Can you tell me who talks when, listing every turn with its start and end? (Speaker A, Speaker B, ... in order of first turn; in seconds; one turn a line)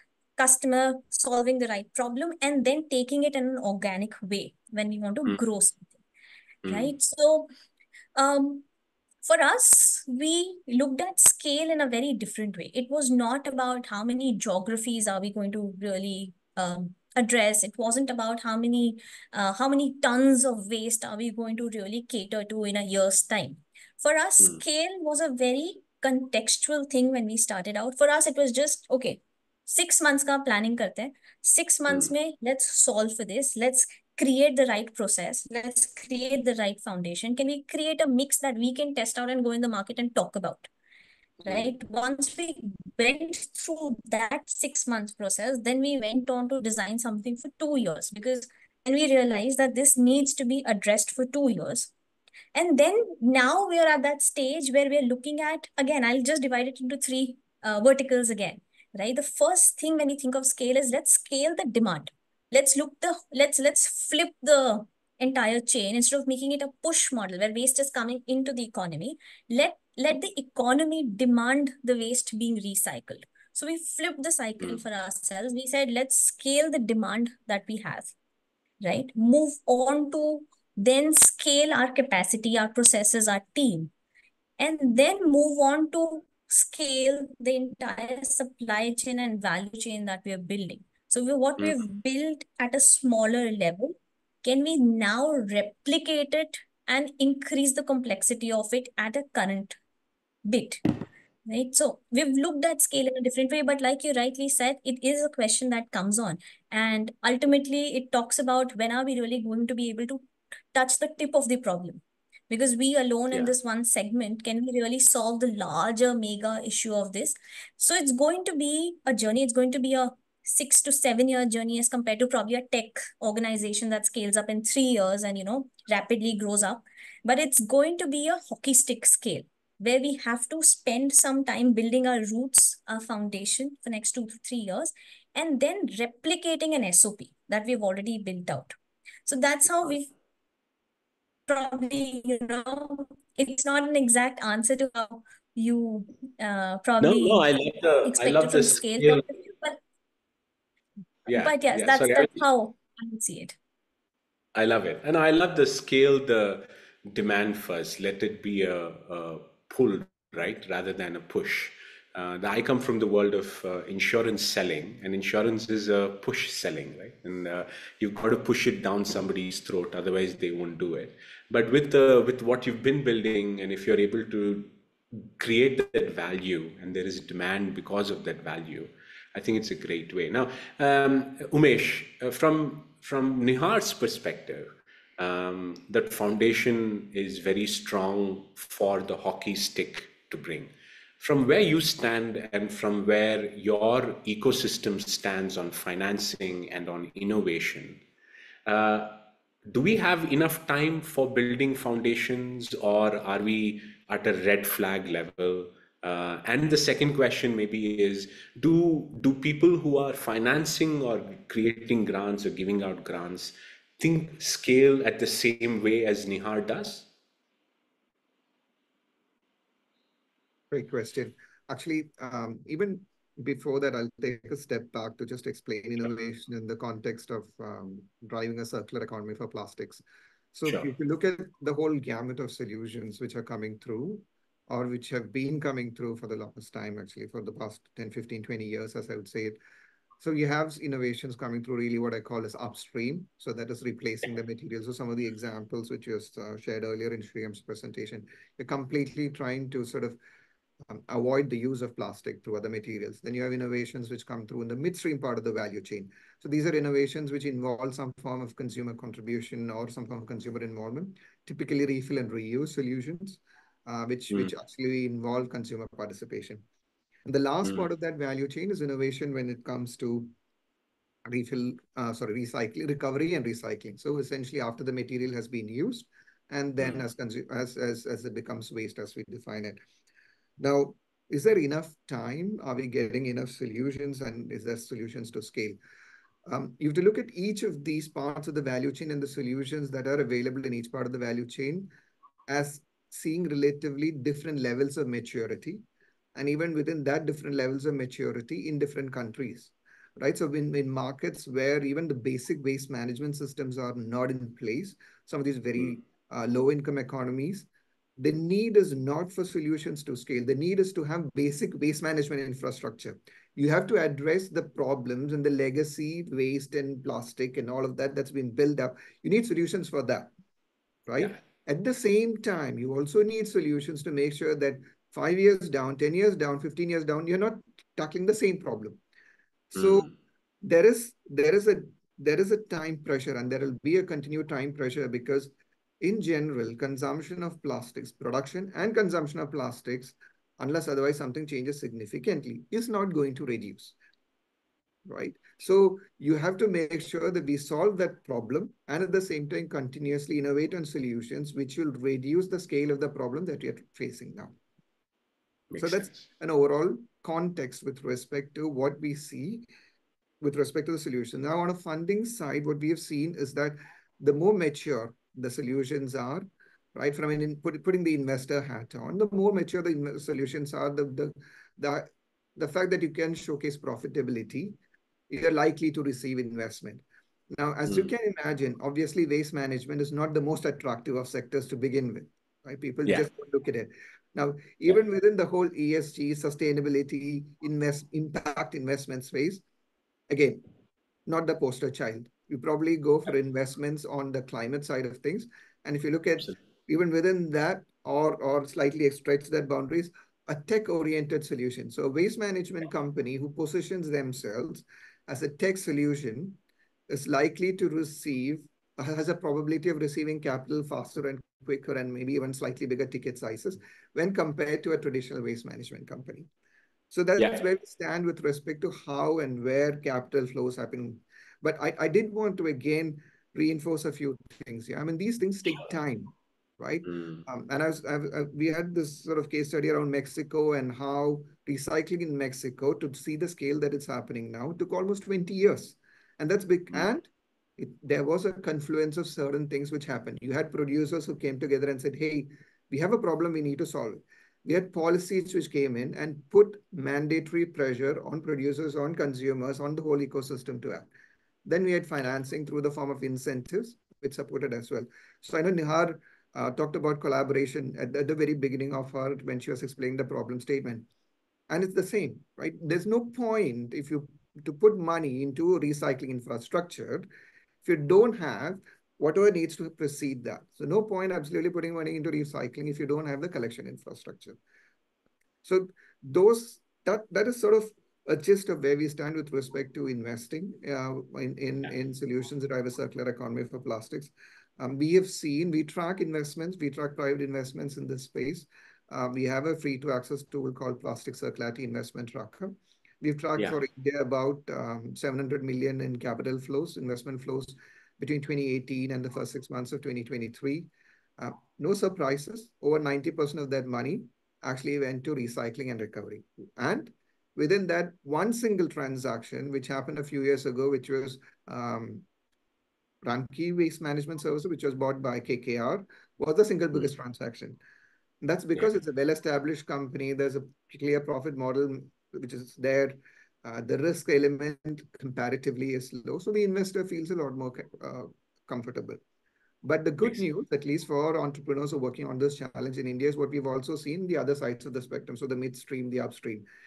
Speaker A: 0.4-6.0
Speaker B: 6.6-6.9
Speaker A: 6.7-7.5
Speaker A: 8.1-8.7
Speaker A: 9.2-40.7
Speaker B: 41.4-41.7
Speaker A: 41.5-51.9
Speaker A: 52.5-78.1
Speaker A: 78.8-83.9
Speaker A: 84.6-99.8
Speaker A: 100.5-100.9
Speaker A: 101.5-140.1
Speaker B: 139.7-139.9
Speaker A: 141.5-147.4
Speaker B: 147.0-149.3
Speaker A: 148.0-149.8
Speaker B: 151.2-152.4
Speaker A: 151.3-153.6
Speaker B: 154.5-198.0
Speaker B: 198.7-217.1
Speaker C: 220.7-230.0
Speaker C: 230.5-239.6
Speaker C: 240.2-250.2
Speaker C: 250.9-266.6
Speaker C: 267.2-270.3
Speaker C: 271.2-279.8
Speaker C: 280.6-285.8
Speaker C: 286.5-291.9
Speaker C: 292.5-307.7
Speaker C: 308.2-320.3
Speaker C: 321.1-329.0
Speaker C: 329.7-330.1
Speaker B: 329.8-330.1
Speaker C: 330.6-343.9
Speaker C: 345.1-354.6
Speaker B: 355.7-356.2
Speaker C: 355.8-359.7
Speaker C: 360.4-374.8
Speaker C: 375.3-389.6
Speaker C: 390.3-390.6
Speaker C: 391.3-416.5
Speaker C: 417.1-451.1
Speaker B: 417.4-417.6
Speaker B: 427.1-427.4
Speaker C: 451.6-461.1
Speaker C: 461.7-467.3
Speaker C: 467.8-474.6
Speaker C: 475.6-512.2
Speaker C: 513.2-517.8
Speaker C: 518.4-529.2
Speaker C: 529.8-536.6